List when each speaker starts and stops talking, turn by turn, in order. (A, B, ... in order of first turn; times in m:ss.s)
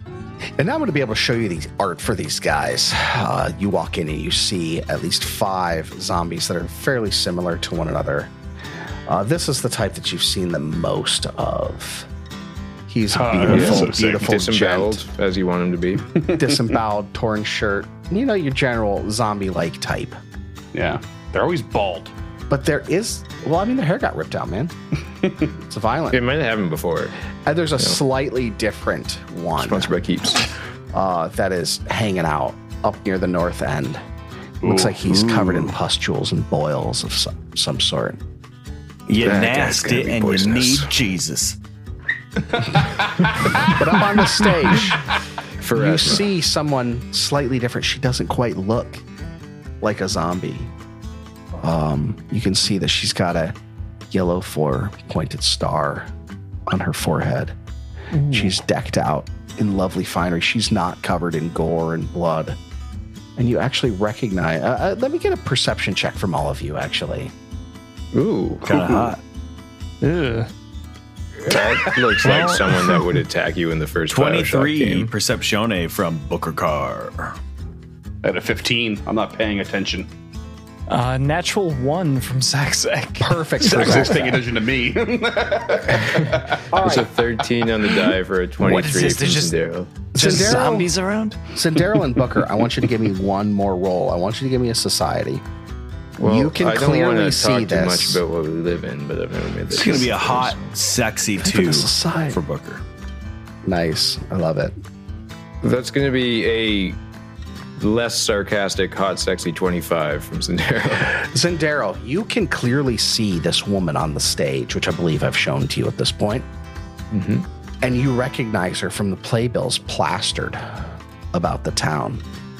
0:00.6-0:08.3 A
0:09.1-0:12.1 A
0:12.9-0:15.0 A
0:13.1-0:14.3 B
0:13.4-0:16.1 C
0:16.2-0:16.5 B
0:16.3-0:20.2 A
0:20.7-0:22.1 B
0:22.5-0:24.7 A
0:25.7-0:26.2 A
0:26.1-0:27.1 C
0:27.4-0:30.0 A
0:29.6-0:30.5 C
0:30.9-0:34.0 A
0:34.6-0:38.2 A
0:34.6-0:34.9 B
0:35.1-0:35.7 D
0:39.1-0:41.6 D
0:39.1-0:40.9 C
0:43.7-0:45.0 A
0:45.6-0:46.2 C
0:45.7-0:49.0 A
0:49.8-0:50.7 A
0:51.6-0:53.6 A
0:54.1-0:56.1 A
0:56.7-0:57.5 A
0:58.3-1:02.6 A
1:03.4-1:07.3 A
1:08.1-1:09.1 C
1:08.6-1:09.2 D
1:10.0-1:10.5 E
1:11.4-1:15.1 C
1:12.2-1:13.0 E
1:14.1-1:17.4 D
1:18.2-1:20.1 B
1:20.9-1:23.9 E
1:23.2-1:24.4 A
1:23.6-1:26.7 B
1:26.0-1:30.1 C
1:26.7-1:27.1 A
1:28.6-1:29.5 E
1:30.1-1:30.9 A
1:30.1-1:31.4 E
1:31.5-1:35.4 A
1:36.2-1:40.7 C
1:36.2-1:38.2 A
1:39.7-1:42.8 D
1:41.4-1:42.4 A
1:43.6-1:44.7 A
1:45.6-1:47.0 C
1:47.8-1:51.2 C
1:51.1-1:56.4 A
1:57.1-1:57.4 C
1:57.8-2:00.6 A
2:01.3-2:02.2 A